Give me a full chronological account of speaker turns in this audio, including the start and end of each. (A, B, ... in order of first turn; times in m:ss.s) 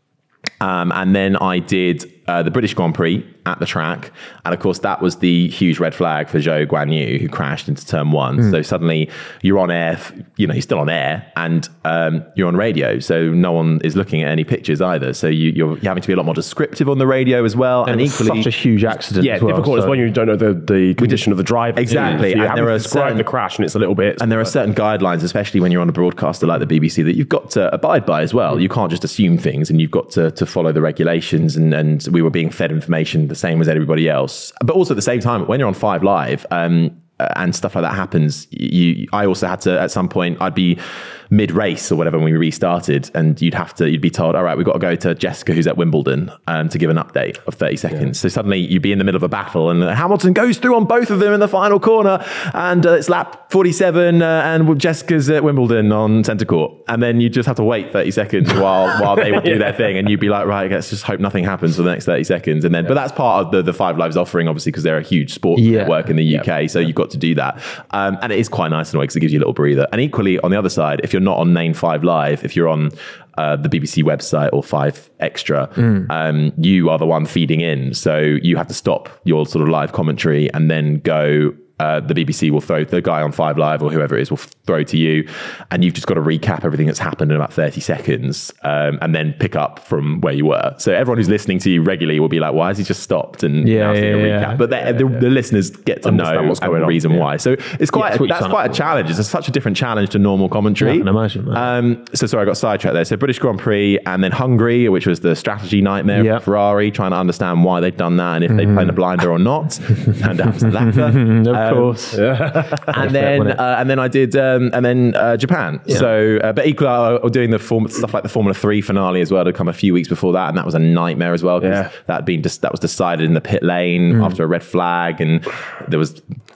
0:00.6-0:18.5 A
0:17.8-0:20.0 B
0:19.2-0:24.5 C
0:21.8-0:23.3 A
0:24.2-1:52.2 A
0:58.9-0:59.9 C
1:05.6-1:06.1 B
1:33.6-1:34.6 B
1:34.9-1:35.2 C
1:36.0-1:37.3 C
1:37.9-1:38.8 B
1:40.8-1:41.7 B
1:46.1-1:46.4 B
1:48.6-1:49.0 B
1:50.8-1:52.2 B
1:52.1-1:53.0 C
1:52.9-2:06.2 A
1:53.0-1:53.6 B
2:01.6-2:01.9 C
2:04.1-2:04.4 B